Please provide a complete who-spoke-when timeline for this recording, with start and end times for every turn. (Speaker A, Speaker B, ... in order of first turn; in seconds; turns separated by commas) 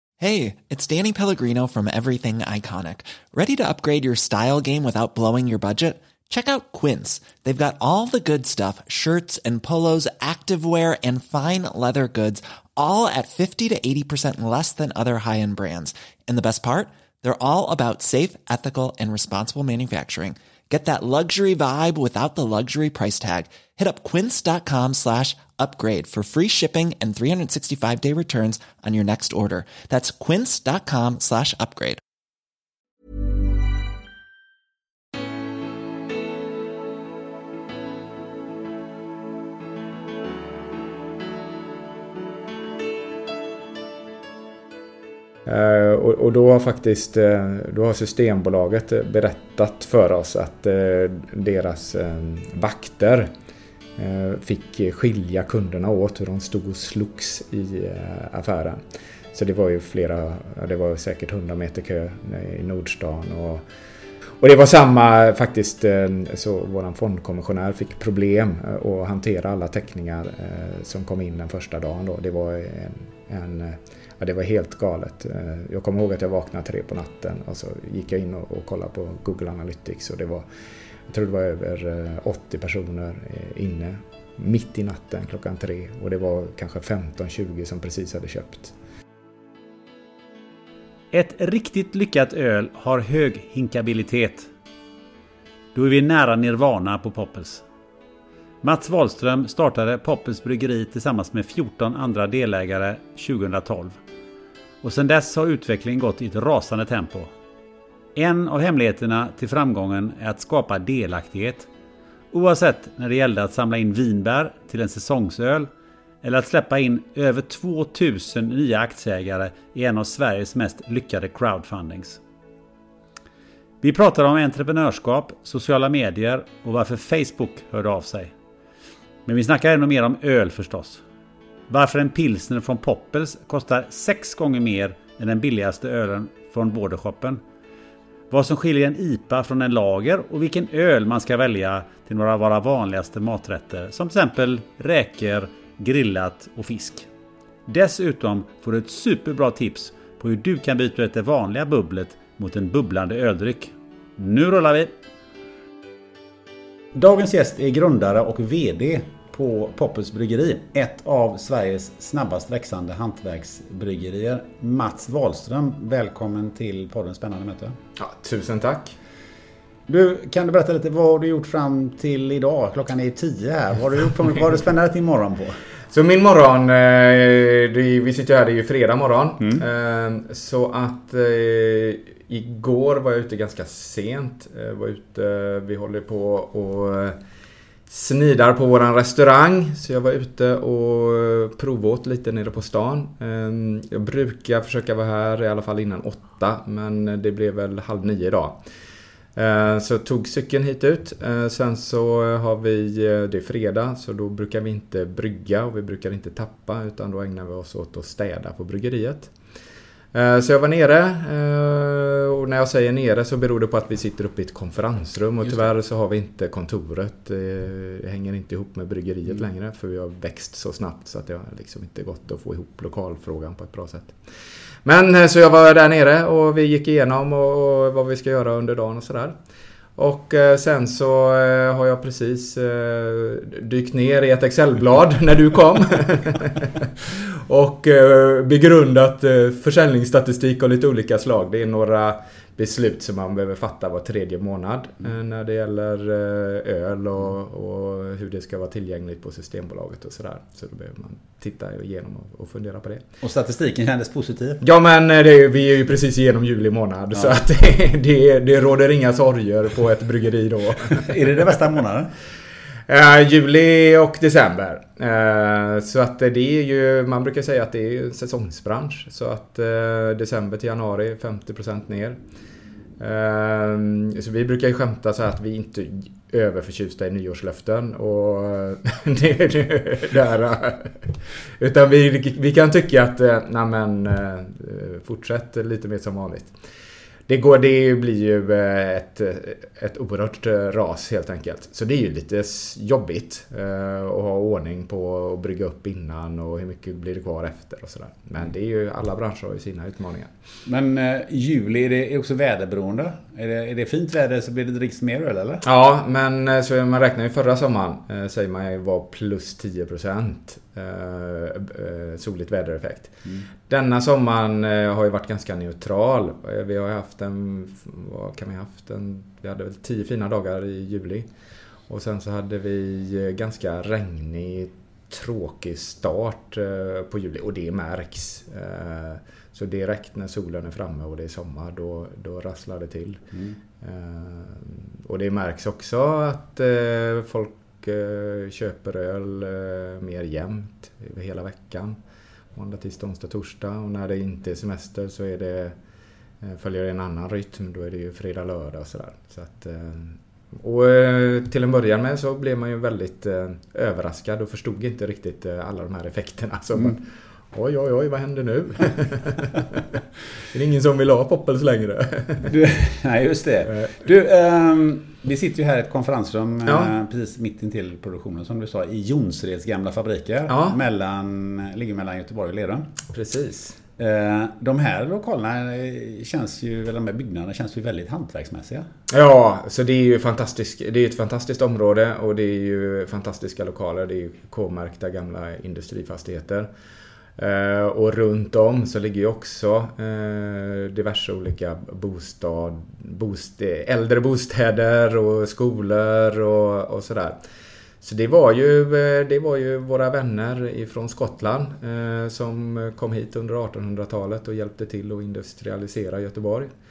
Speaker A: 0.2-32.0, Speaker B: 45.5-53.3, Speaker B: 54.0-58.8, Speaker B: 59.3-63.6, Speaker B: 64.4-80.5, Speaker B: 81.1-88.7, Speaker C: 91.1-94.5, Speaker C: 95.7-97.6, Speaker C: 98.6-104.0, Speaker C: 104.8-107.3, Speaker C: 108.2-111.7, Speaker C: 112.3-115.7, Speaker C: 116.2-122.2, Speaker C: 123.8-128.3, Speaker C: 129.2-131.0, Speaker C: 131.7-137.4, Speaker C: 138.3-147.1, Speaker C: 147.7-154.9, Speaker C: 156.9-167.8, Speaker B: 168.0-168.9, Speaker C: 169.9-175.6, Speaker B: 175.9-187.2, Speaker B: 187.9-198.6, Speaker B: 199.3-209.3, Speaker B: 210.1-224.2, Speaker B: 224.8-229.3, Speaker B: 229.9-253.1, Speaker C: 253.2-254.6, Speaker B: 254.6-261.5, Speaker C: 260.8-262.1, Speaker B: 262.9-272.2, Speaker B: 273.0-286.5, Speaker B: 287.3-300.3, Speaker C: 300.6-305.6, Speaker B: 305.6-321.3, Speaker B: 321.9-333.2, Speaker C: 333.3-333.6, Speaker B: 333.8-342.0, Speaker B: 342.5-345.8, Speaker B: 346.4-359.9, Speaker B: 360.5-362.5, Speaker C: 362.4-372.9, Speaker B: 366.6-366.9, Speaker B: 370.5-370.8, Speaker B: 373.1-373.8, Speaker C: 374.0-378.9, Speaker B: 379.1-386.7, Speaker B: 387.4-397.4, Speaker B: 398.0-406.7